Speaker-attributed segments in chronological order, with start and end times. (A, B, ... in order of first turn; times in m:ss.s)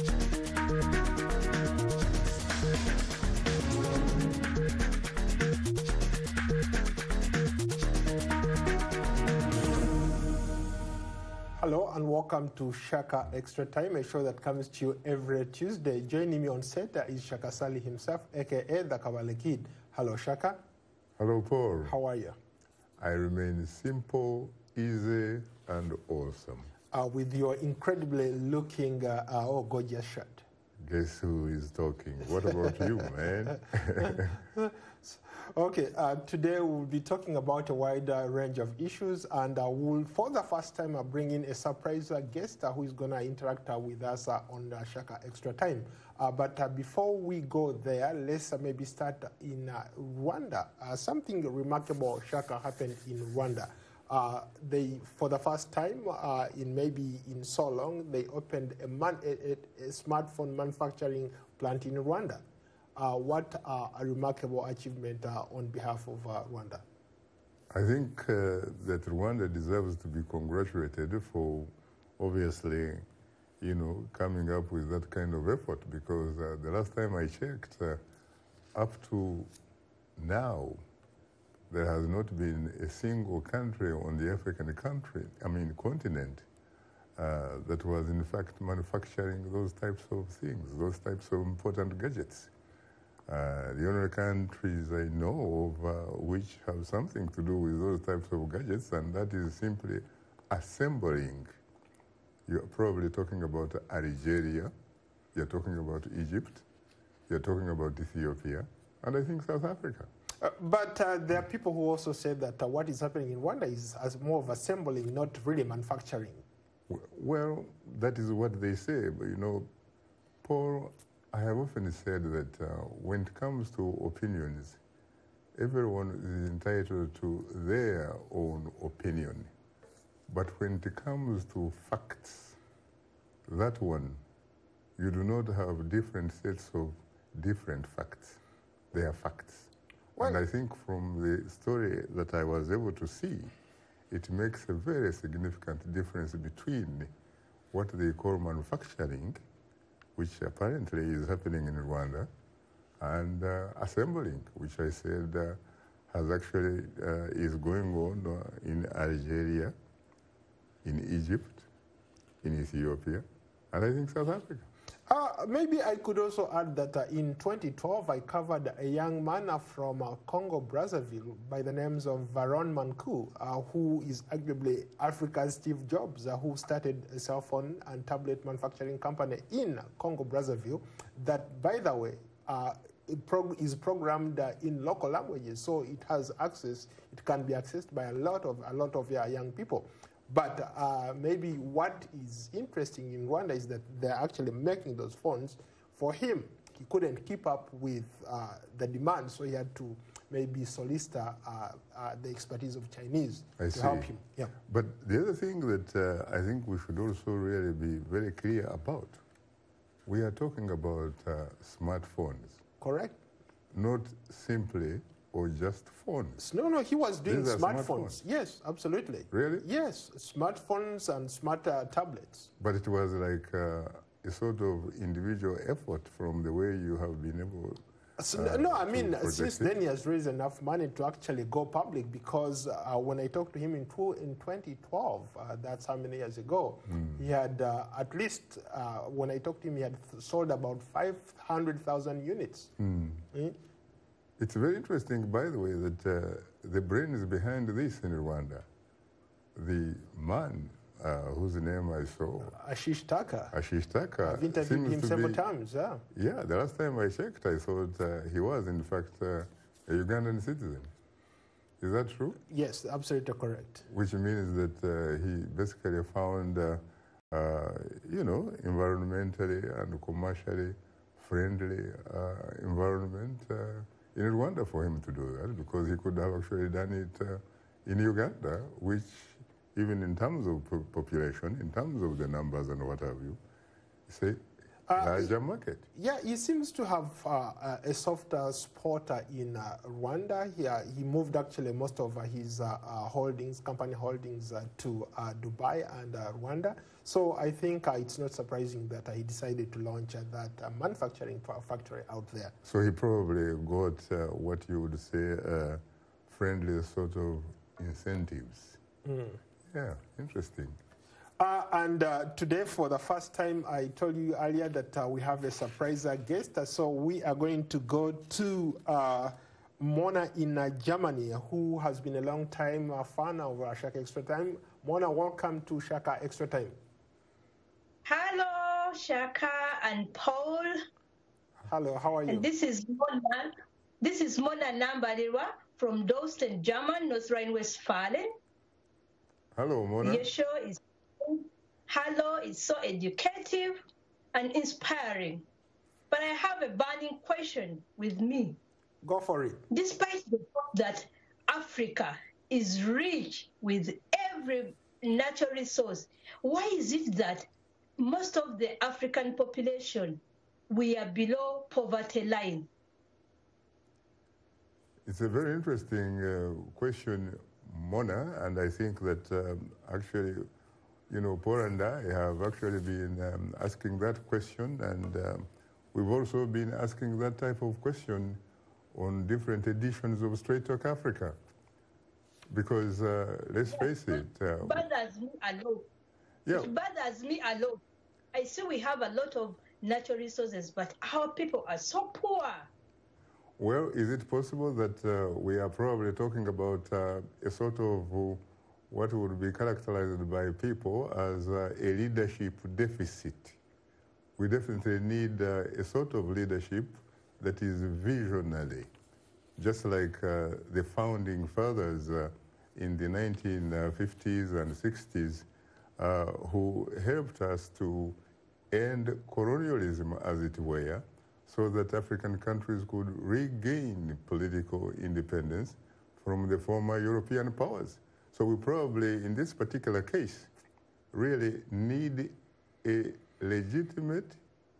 0:11.6-0:20.6 A
0:21.2-0:21.9 B
0:21.8-0:22.4 A
0:23.0-0:26.7 B
0:26.9-0:30.4 A
0:30.8-0:34.4 B
0:34.4-1:02.4 A
1:03.0-1:06.8 A
1:07.7-1:13.0 B
1:13.6-1:18.0 B
1:18.7-1:19.5 B
1:20.2-1:20.8 B
1:21.7-1:26.4 B
1:27.2-1:32.5 B
1:33.3-1:41.6 B
1:42.5-1:44.7 B
1:45.3-1:46.6 B
1:47.3-1:50.1 B
1:50.4-1:56.4 A
1:56.9-1:59.7 B
2:00.4-2:04.8 B
2:05.5-2:09.5 B
2:10.3-2:12.6 B
2:13.5-2:14.2 B
2:15.0-2:18.4 B
2:18.9-2:23.5 B
2:20.2-2:20.4 A
2:24.1-2:27.1 B
2:27.7-2:29.4 B
2:30.2-2:32.3 B
2:33.0-2:35.6 B
2:36.1-2:39.7 B
2:40.8-2:41.7 B
2:42.4-2:44.7 B
2:45.1-3:24.5 A
3:23.6-3:24.1 B
3:24.6-3:29.2 B
3:30.0-3:32.6 B
3:32.8-3:33.2 A
3:33.7-3:36.4 B
3:36.4-3:42.5 A
3:37.3-3:38.2 B
3:39.3-3:39.6 B
3:42.6-3:47.8 B
3:48.2-4:02.7 A
3:48.3-3:49.7 B
4:02.8-4:03.2 B
4:03.3-4:03.6 A
4:04.4-4:08.6 B
4:09.5-4:12.6 B
4:12.4-4:13.5 A
4:13.5-4:15.4 B
4:14.2-4:16.0 A
4:16.1-4:20.9 B
4:21.8-4:22.4 B
4:22.5-4:23.8 A
4:23.9-4:43.4 B
4:44.1-4:44.4 B
4:44.9-4:45.3 A
4:44.9-4:45.8 B
4:45.9-5:02.5 A
5:02.6-5:08.8 B
5:09.0-5:09.4 A
5:09.7-5:10.8 B
5:11.4-5:26.8 A
5:28.0-5:30.8 C
5:31.6-5:32.5 A
5:32.3-5:38.3 C
5:39.5-5:40.3 B
5:40.0-5:43.8 C
5:44.3-5:45.4 C
5:46.1-5:48.6 C
5:49.0-5:49.6 A
5:49.7-5:57.5 C
5:58.0-6:02.7 C
6:05.0-6:10.5 B
6:11.1-6:18.4 B
6:18.9-6:21.4 B
6:22.5-6:24.8 B
6:23.8-6:25.9 C
6:26.4-6:26.7 B
6:26.5-6:27.8 C
6:28.3-6:32.7 C
6:33.6-6:43.6 B
6:44.4-6:48.9 B
6:49.6-6:55.5 B
6:56.0-6:58.2 B
6:58.7-7:10.5 B
7:11.1-7:14.4 B